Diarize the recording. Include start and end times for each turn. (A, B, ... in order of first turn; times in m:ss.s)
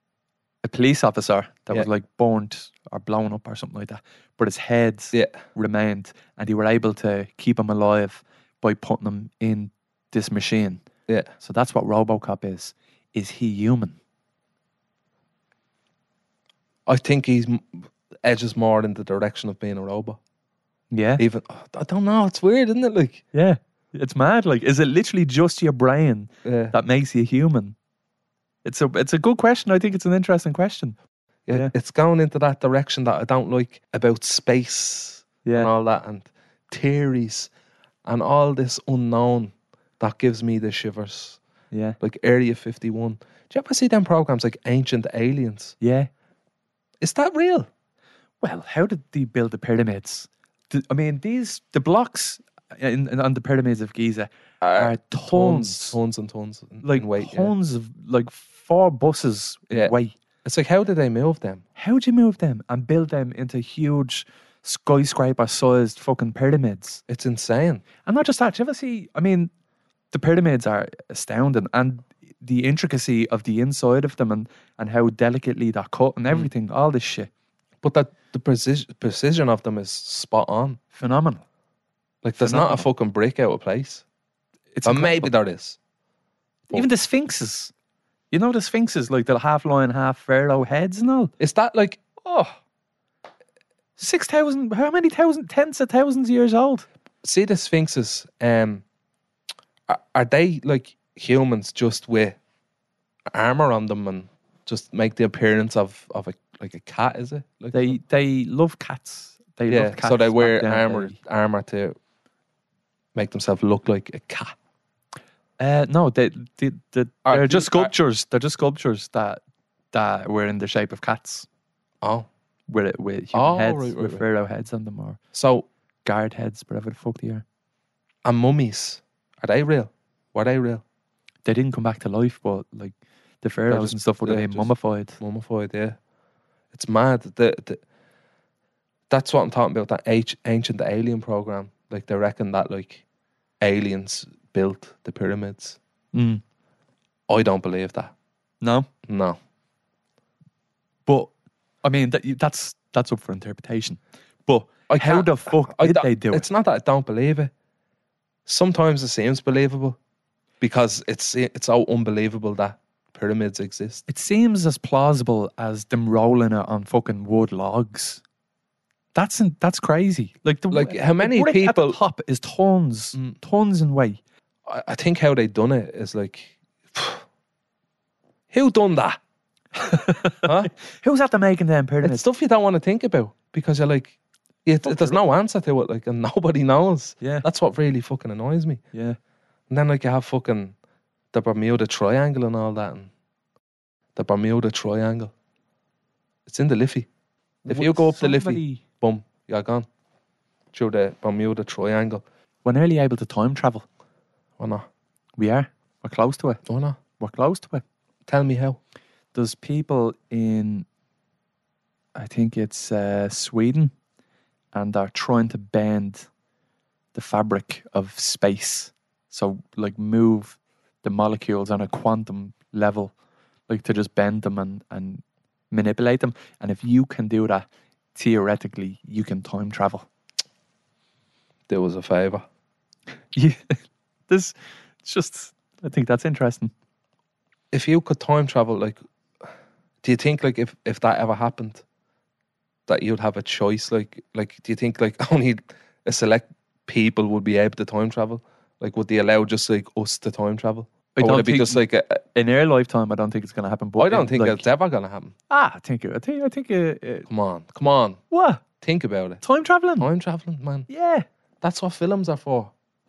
0:00.6-0:10.8 A
0:05.1-0:05.4 B
0:11.4-0:14.0 A
0:16.9-0:20.2 B
0:20.9-0:21.2 A
0:21.2-0:23.2 B
0:23.3-0:27.8 A
0:26.4-0:26.7 B
0:28.6-0:31.0 A
0:31.5-0:37.5 B
0:35.4-0:35.7 A
0:38.0-0:41.4 B
0:41.7-0:42.0 A
0:42.0-0:45.8 B
0:45.8-0:46.1 A
0:47.0-0:47.7 B
0:48.4-0:56.0 A
0:54.6-0:57.5 B
0:56.8-1:00.2 A
1:00.4-1:01.6 B
1:01.8-1:07.0 A
1:07.1-1:07.8 B
1:08.0-1:09.5 A
1:10.1-1:17.3 A
1:17.8-1:20.8 B
1:20.9-1:21.4 A
1:22.2-1:24.0 B
1:22.4-1:22.9 A
1:24.7-1:25.3 A
1:24.8-1:25.8 B
1:26.7-1:27.7 A
1:28.3-1:31.3 A
1:31.4-1:32.0 B
1:32.2-1:32.6 A
1:34.0-1:36.9 A
1:37.2-1:38.8 B
1:39.9-1:42.4 B
1:43.3-1:48.0 B
1:47.7-1:51.2 A
1:49.7-1:52.0 B
1:53.2-1:54.6 B
1:55.6-1:59.4 A
1:57.2-1:57.9 B
1:59.9-2:01.5 A
2:02.0-2:02.3 B
2:02.7-2:05.2 A
2:03.3-2:04.2 B
2:05.3-2:05.7 B
2:06.0-2:07.4 A
2:08.2-2:10.8 B
2:11.4-2:15.2 A
2:13.7-2:16.0 B
2:16.7-2:17.8 B
2:19.1-2:23.0 B
2:23.6-2:25.8 B
2:26.1-2:26.4 A
2:27.3-2:28.1 B
2:28.6-2:28.9 A
2:29.1-2:29.4 B
2:31.1-2:36.5 A
2:34.9-2:37.5 B
2:38.5-2:40.0 B
2:40.6-2:44.0 B
2:44.1-2:48.2 A
2:49.2-2:54.2 A
2:50.7-2:52.0 B
2:54.7-2:57.2 B
2:58.5-2:59.2 B
2:59.7-3:02.2 A
3:00.4-3:00.7 B
3:02.0-3:08.8 B
3:04.8-3:05.2 A
3:07.2-3:07.5 A
3:09.7-3:10.8 B
3:11.3-3:13.1 B
3:14.2-3:15.3 B
3:16.5-3:17.1 B
3:17.6-3:19.9 B
3:17.7-3:18.8 A
3:20.7-3:22.2 B
3:22.6-3:23.9 A
3:24.6-3:24.9 B
3:25.4-3:26.6 A
3:26.7-3:27.0 B
3:27.2-3:27.8 A
3:28.3-3:28.8 B
3:29.3-3:30.9 A
3:32.2-3:33.9 A
3:34.7-3:36.3 A
3:37.1-3:43.1 A
3:43.7-3:50.1 A
3:51.7-3:52.4 B
3:53.3-3:56.7 A
3:57.7-3:59.5 B
4:00.0-4:01.8 B
4:02.9-4:12.1 B
4:11.2-4:14.6 A
4:14.0-4:15.4 B
4:15.5-4:17.3 A
4:17.3-4:18.2 B
4:18.3-4:18.6 A
4:18.8-4:19.4 B
4:19.4-4:20.1 A
4:20.0-4:20.9 B
4:20.9-4:21.2 A
4:21.6-4:22.7 B